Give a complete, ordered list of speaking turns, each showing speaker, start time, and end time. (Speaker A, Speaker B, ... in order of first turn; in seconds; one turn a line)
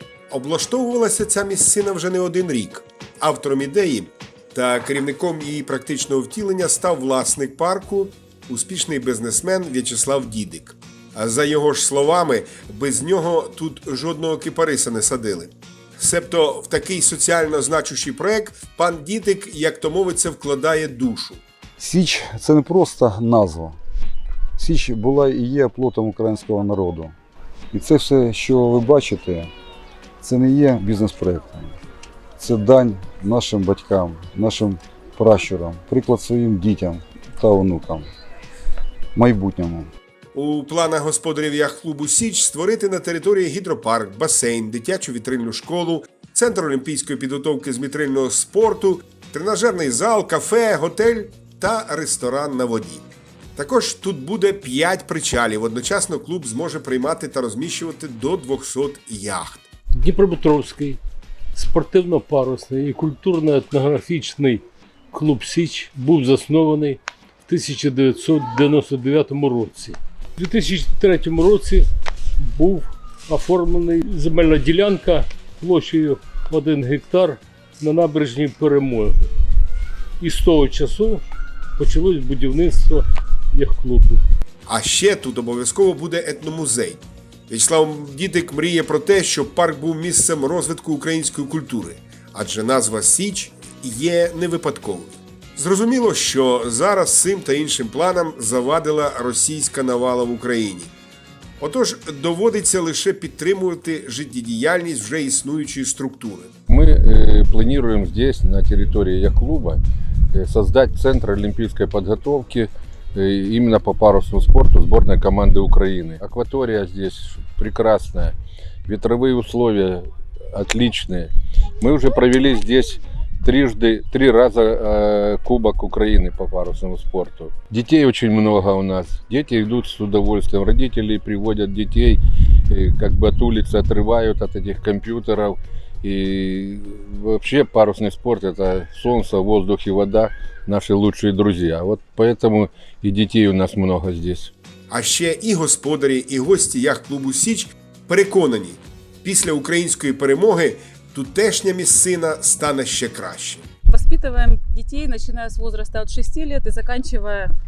Speaker A: 0.3-21.4
Speaker B: 21.8-23.8
Speaker B: 24.6-27.1
Speaker B: 27.7-29.5
Speaker B: 30.2-31.7
Speaker B: 32.4-38.1
Speaker B: 39.1-39.9
Speaker A: 40.3-59.6
Speaker C: 60.0-61.0
Speaker C: 61.5-79.3
Speaker C: 80.2-81.3
Speaker C: 81.8-84.2
Speaker A: 84.7-100.9
Speaker A: 101.6-106.5
Speaker D: 106.7-109.8
Speaker D: 110.3-118.3
Speaker D: 118.9-144.5
Speaker A: 144.9-153.7
Speaker E: 153.9-157.5